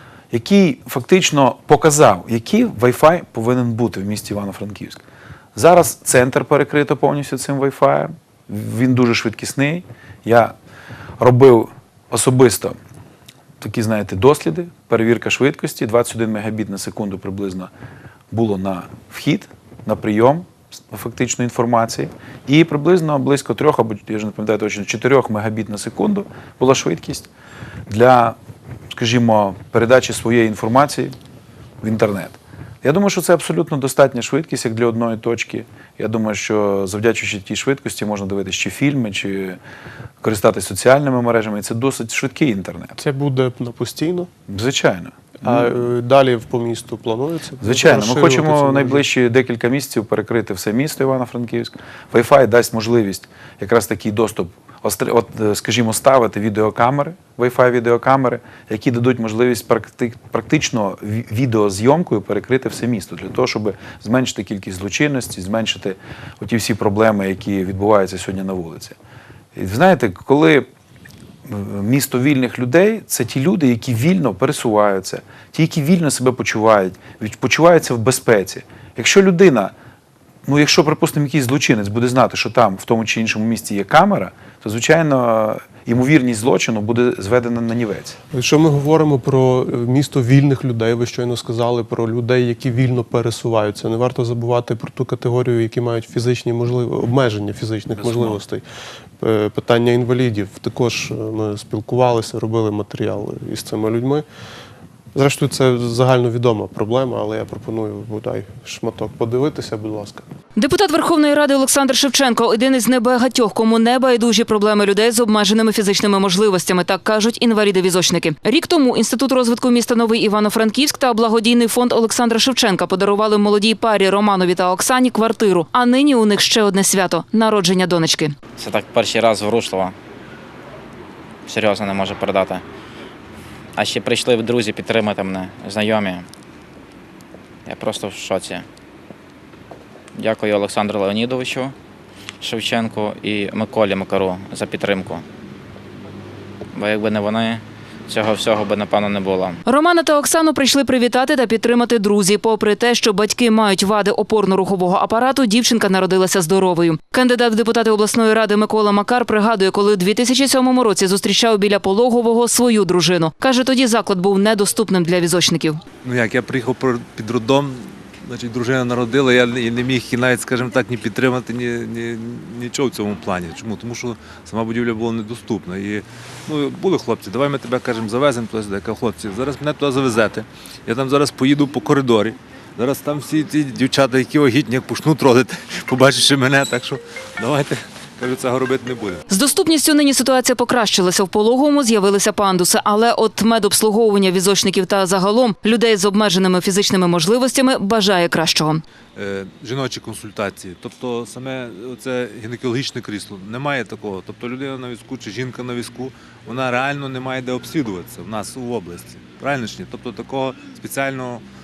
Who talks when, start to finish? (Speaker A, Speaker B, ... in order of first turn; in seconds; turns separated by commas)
Speaker A: 0.3-5.0, Speaker A: 5.5-10.5, Speaker A: 11.2-12.8, Speaker A: 13.6-17.7, Speaker A: 18.3-27.3, Speaker A: 27.9-28.4, Speaker A: 28.9-31.2, Speaker A: 31.8-39.6, Speaker A: 40.2-43.0, Speaker B: 43.0-44.3, Speaker A: 44.5-45.7, Speaker B: 45.4-49.0, Speaker A: 47.6-69.0, Speaker A: 69.5-70.7, Speaker A: 71.5-79.7, Speaker A: 80.5-88.2, Speaker B: 88.3-98.6, Speaker A: 98.0-98.4, Speaker B: 99.2-104.2, Speaker B: 105.1-110.2, Speaker C: 110.6-128.3, Speaker D: 128.6-129.9, Speaker D: 131.5-132.6, Speaker D: 133.8-136.3, Speaker D: 137.7-138.7, Speaker D: 140.2-141.7, Speaker D: 142.4-145.2, Speaker D: 146.7-149.6, Speaker C: 149.7-165.8, Speaker E: 166.0-189.2, Speaker C: 189.3-198.8, Speaker E: 199.2-211.4